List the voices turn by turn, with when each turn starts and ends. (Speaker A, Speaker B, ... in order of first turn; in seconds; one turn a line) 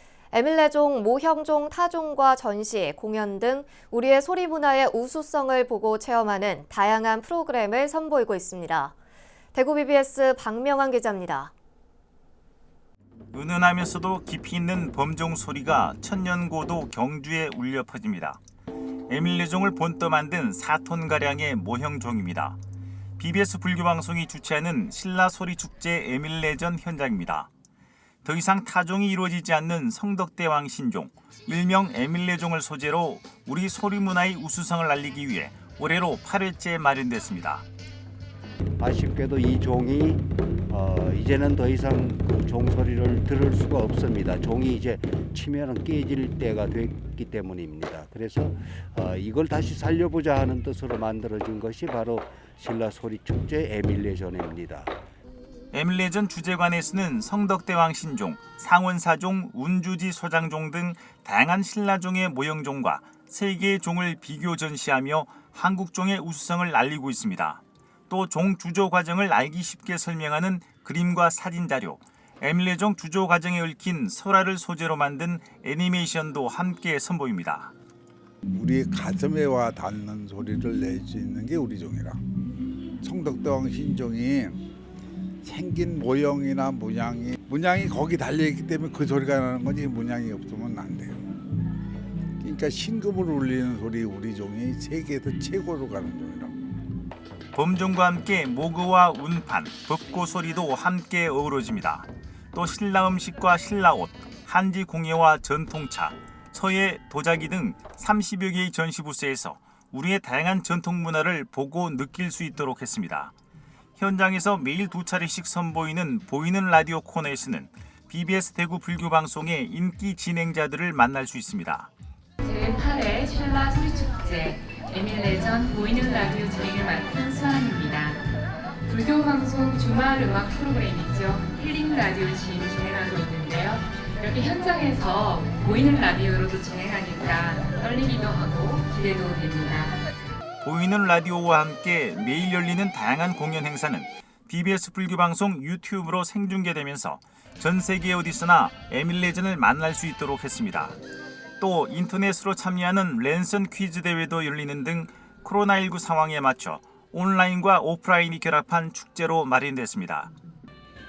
Speaker A: 0.3-8.9
Speaker A: 9.5-11.5
Speaker B: 13.3-18.4
Speaker B: 19.1-22.6
Speaker B: 23.2-27.5
Speaker B: 28.2-37.6
Speaker C: 38.8-55.0
Speaker B: 55.7-77.7
Speaker D: 78.5-82.2
Speaker D: 83.0-84.6
Speaker D: 85.4-91.2
Speaker D: 92.4-96.5
Speaker B: 97.5-113.3
Speaker B: 114.0-121.9
Speaker E: 122.4-128.2
Speaker E: 128.9-140.0
Speaker B: 140.6-151.0
Speaker B: 151.6-160.3